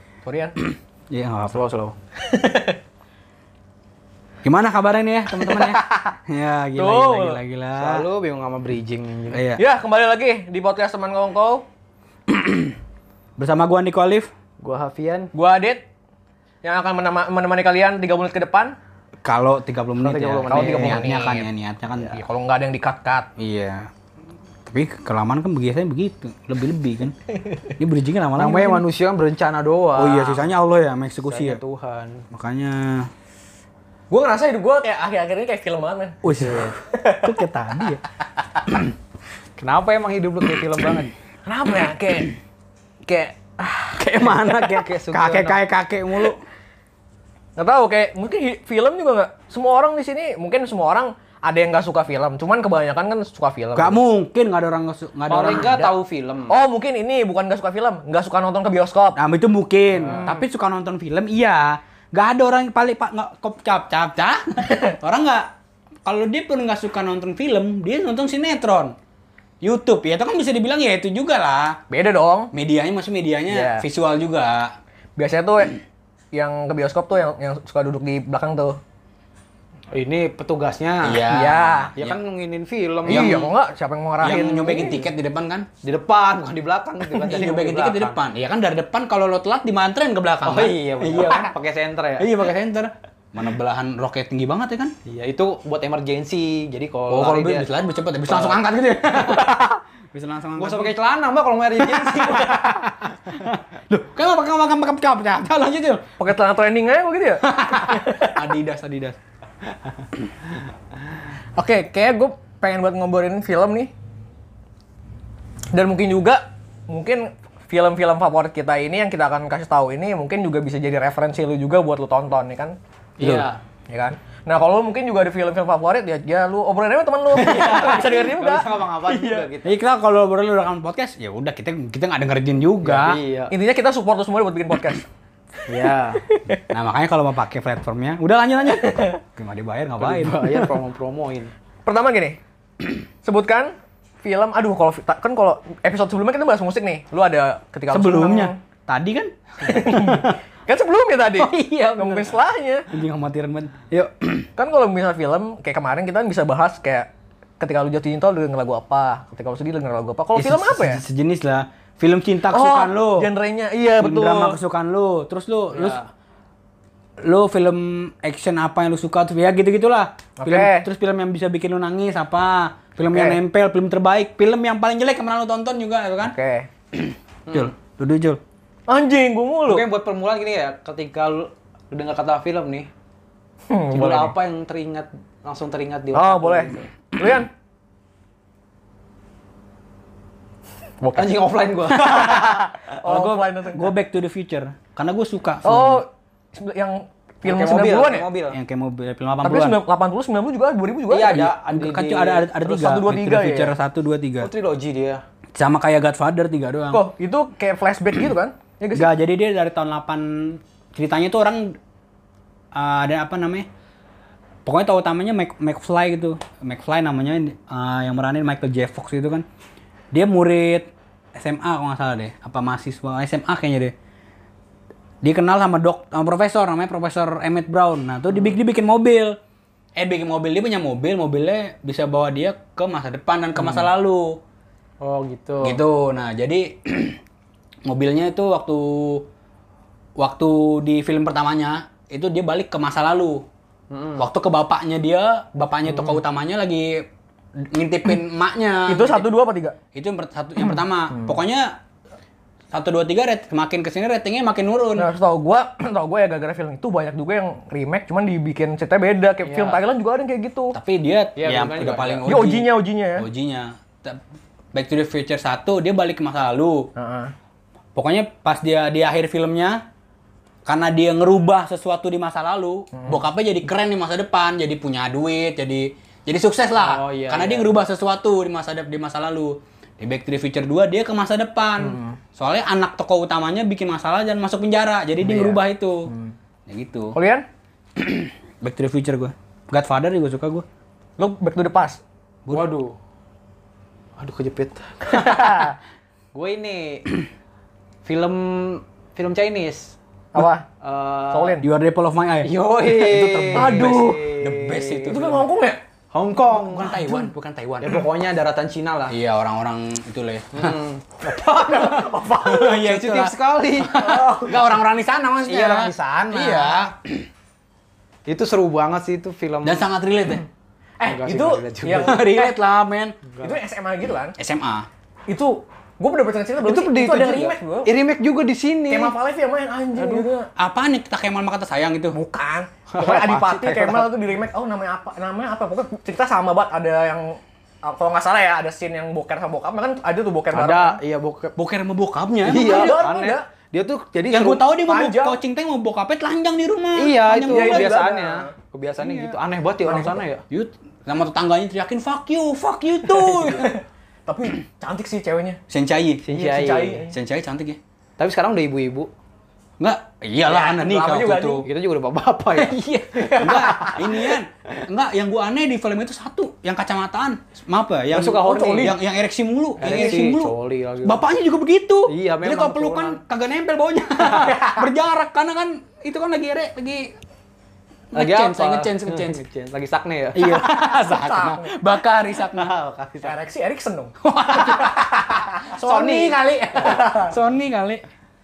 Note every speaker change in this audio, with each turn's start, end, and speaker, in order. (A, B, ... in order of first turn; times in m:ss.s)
0:00.2-0:00.6 A
0:00.6-0:01.6 B
0:01.5-0:02.0 C
0:02.2-0:02.8 A
0:04.4-0:08.1 B
0:05.4-0:06.2 A
0:06.8-0:07.4 A
0:07.8-0:09.4 C
0:09.3-0:09.6 B
0:09.6-0:11.6 A
0:12.3-0:12.8 B
0:13.4-0:14.3 B
0:14.6-0:15.3 C
0:15.3-0:15.8 A
0:16.6-0:18.8 A
0:19.2-0:22.2 B
0:20.0-0:21.2 C
0:20.5-0:21.5 A
0:22.1-0:23.3 A
0:23.4-0:23.9 B
0:24.7-0:27.2 B
0:27.8-0:28.9 B
0:28.4-0:30.5 C
0:30.0-0:31.6 B
0:31.3-0:32.3 C
0:32.3-0:33.1 B
0:34.1-0:36.2 A
0:36.2-0:38.0 B
0:36.3-0:36.7 C
0:36.9-0:37.4 A
0:39.6-0:41.1 C
0:41.5-0:42.3 A
0:43.0-0:44.3 A
0:44.0-0:46.4 B
0:44.2-0:45.6 C
0:47.6-0:54.0 A
0:53.8-0:56.0 B
0:55.3-0:56.6 C
0:56.5-0:59.2 A
0:59.2-1:05.5 B
1:06.0-1:09.0 B
1:09.6-1:11.8 B
1:11.9-1:12.5 A
1:12.5-1:14.7 B
1:13.5-1:13.8 A
1:15.2-1:15.8 A
1:16.3-1:18.8 A
1:19.9-1:21.4 C
1:21.0-1:22.2 B
1:21.3-1:21.9 A
1:22.0-1:23.4 C
1:23.1-1:25.0 A
1:23.1-1:23.5 B
1:24.2-1:25.7 B
1:25.8-1:28.2 C
1:27.2-1:31.5 B
1:30.4-1:32.3 C
1:32.2-1:34.9 B
1:35.1-1:37.7 C
1:37.1-1:41.0 B
1:38.3-1:38.6 C
1:40.6-1:42.7 C
1:42.0-1:46.1 B
1:46.2-1:48.5 A
1:47.4-1:49.2 B
1:51.6-1:53.9 A
1:55.7-2:02.8 A
2:03.2-2:03.6 C
2:03.2-2:03.5 B
2:03.9-2:09.5 A
2:07.3-2:09.8 C
2:09.6-2:13.2 B
2:12.8-2:13.6 C
2:13.5-2:15.1 A
2:15.7-2:16.2 C
2:16.2-2:16.7 A
2:16.7-2:20.8 B
2:18.8-2:19.2 A
2:20.0-2:21.5 C
2:21.9-2:22.4 A
2:23.2-2:28.6 A
2:27.9-2:30.4 B
2:29.6-2:32.9 A
2:31.4-2:32.4 B
2:32.9-2:34.5 B
2:34.6-2:37.1 A
2:37.6-2:41.0 A
2:40.4-2:43.3 B
2:42.5-2:44.6 A
2:44.0-2:46.0 B
2:45.7-2:46.1 C
2:47.2-2:56.4 B
2:50.4-2:50.9 A
2:53.1-2:53.4 A
2:56.2-2:56.7 A
2:56.9-2:58.4 B
2:57.5-2:57.7 C
2:58.9-2:59.9 A
2:59.7-3:02.9 C
3:03.7-3:04.3 A
3:03.9-3:06.9 C
3:06.1-3:07.5 A
3:11.0-3:12.7 C
3:12.0-3:16.0 B
3:12.0-3:13.9 A
3:15.6-3:18.3 A
3:17.4-3:18.6 C
3:18.5-3:19.8 B
3:19.4-3:21.4 A
3:21.1-3:22.5 C
3:21.3-3:24.5 B
3:22.6-3:23.7 A
3:24.4-3:25.2 C
3:25.6-3:27.0 B
3:26.9-3:29.1 A
3:28.9-3:31.8 B
3:32.8-3:33.7 B
3:34.6-3:39.5 B
3:40.1-3:44.0 B
3:45.2-3:49.4 B
3:50.0-3:54.4 B
3:53.6-3:53.8 C
3:55.0-3:55.8 C
3:55.6-3:57.2 B
3:57.8-3:59.3 B
4:00.2-4:03.4 B
4:03.9-4:04.3 C
4:04.2-4:07.0 B
4:07.6-4:09.3 B
4:08.9-4:09.8 A
4:09.9-4:11.8 B
4:12.7-4:15.1 B
4:15.0-4:20.8 A
4:19.4-4:19.8 C
4:20.7-4:24.2 B
4:21.4-4:22.3 C
4:22.2-4:23.3 A
4:24.7-4:26.9 B
4:27.0-4:27.3 A
4:28.0-4:29.8 B
4:30.6-4:46.1 B
4:32.9-4:33.2 A
4:36.8-4:37.7 C
4:41.8-4:42.2 A
4:45.2-4:46.3 A
4:46.7-4:47.2 B
4:47.1-4:47.4 A
4:48.0-4:50.6 B
4:51.2-4:52.0 A
4:52.5-4:53.0 C
4:54.2-4:55.7 C
4:55.1-4:55.8 A
4:56.3-4:57.1 C
4:58.0-5:00.0 C
5:00.3-5:00.7 A
5:00.8-5:01.6 C
5:01.3-5:01.7 A
5:01.6-5:05.5 B
5:02.4-5:05.1 C
5:03.5-5:04.2 A
5:05.0-5:05.8 A
5:06.1-5:07.0 C
5:06.5-5:08.0 B
5:06.9-5:07.3 A
5:07.8-5:09.2 C
5:09.1-5:10.8 B
5:10.5-5:14.0 C
5:11.3-5:12.8 A
5:12.4-5:17.3 B
5:13.9-5:14.7 A
5:15.4-5:16.9 C
5:18.3-5:19.9 C
5:19.6-5:20.4 B
5:21.0-5:22.6 A
5:21.1-5:22.2 C
5:21.9-5:23.2 B
5:23.3-5:23.6 C
5:23.4-5:24.4 A
5:24.4-5:24.9 B
5:25.3-5:27.9 A
5:26.6-5:29.2 C
5:28.9-5:30.5 A
5:30.0-5:30.3 C
5:30.6-5:32.2 B
5:32.1-5:41.0 A
5:32.9-5:34.1 C
5:40.5-5:41.6 C
5:41.6-5:43.0 B
5:42.4-5:44.6 C
5:42.5-5:43.4 A
5:44.3-5:47.9 B
5:44.9-5:45.4 A
5:47.0-5:50.4 C
5:47.4-5:48.5 A
5:49.0-5:49.4 B
5:49.9-5:50.2 A
5:50.5-5:53.7 B
5:53.1-5:55.6 A
5:55.7-5:56.2 B
5:56.2-5:57.0 C
5:56.3-5:57.2 A
5:57.1-5:57.8 B
5:58.2-5:59.1 C
5:59.8-6:01.7 B
6:00.5-6:01.7 A
6:01.6-6:04.0 C
6:02.5-6:17.1 B
6:03.2-6:04.3 A
6:08.1-6:09.0 C
6:08.3-6:09.0 A
6:09.8-6:11.2 C
6:09.8-6:10.2 A
6:12.1-6:13.2 C
6:14.2-6:14.9 A
6:18.1-6:19.4 B
6:18.2-6:20.7 C
6:20.4-6:22.8 B
6:20.6-6:21.7 A
6:22.5-6:23.4 C
6:23.2-6:27.4 A
6:24.2-6:28.0 B